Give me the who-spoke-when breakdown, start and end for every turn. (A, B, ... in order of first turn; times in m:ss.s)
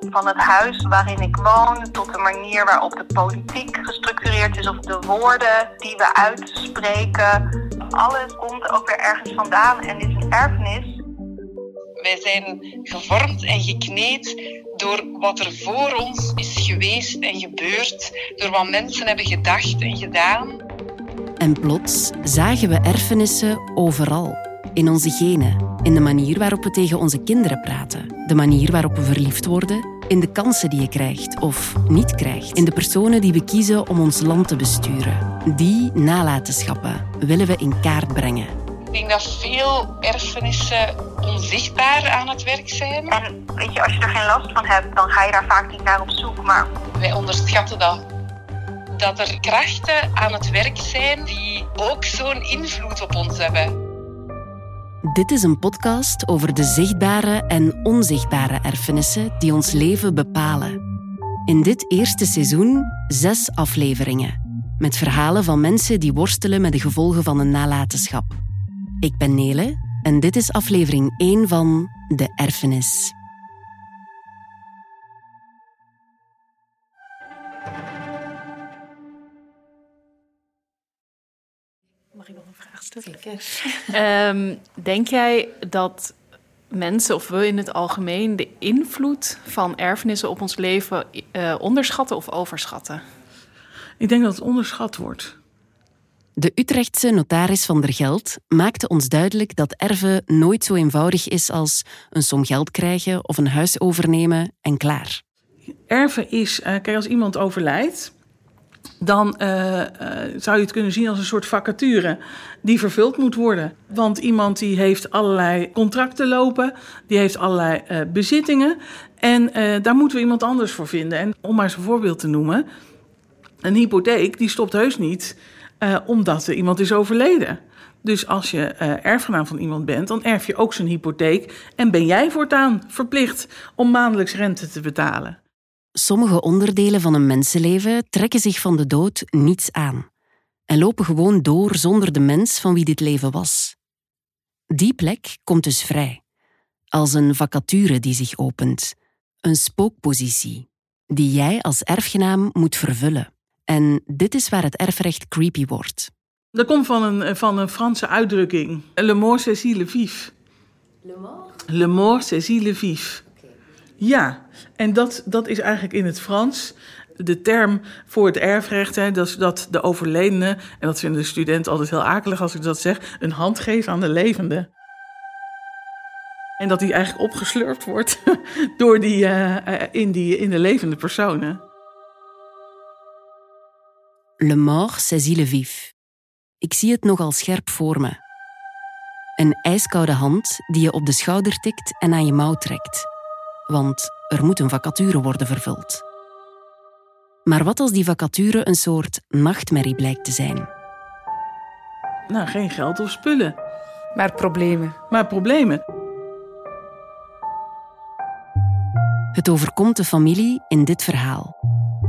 0:00.1-0:07.3 A
0:08.0-0:10.8 A
0:12.0-0:20.6 B
0:21.4-0:38.5 C
0:38.9-0:43.1 B
0:43.1-0:46.6 A
0:47.0-0:48.0 B
0:48.9-0:53.7 B
0:55.0-1:00.8 C
1:01.5-1:08.4 C
1:09.0-1:13.1 C
1:22.2-1:26.1 D
1:26.7-1:33.0 D
1:34.0-1:35.3 E
1:36.4-1:45.2 C
1:45.9-1:48.1 E
1:49.0-2:02.6 E
2:03.6-2:15.4 E
2:16.0-2:20.1 C
2:20.7-2:23.8 C
2:24.7-2:26.2 C
2:26.9-2:36.1 C
2:36.5-2:40.3 E
2:41.7-2:43.2 E
2:44.0-2:54.7 E
2:56.6-3:01.6 E
3:04.4-3:05.9 C
3:06.6-3:08.2 C
3:09.4-3:13.1 C
3:13.7-3:16.0 C
3:17.4-3:20.7 C
3:22.3-3:23.5 E
3:24.2-3:24.9 D
3:25.1-3:25.8 E
3:29.3-3:31.5 C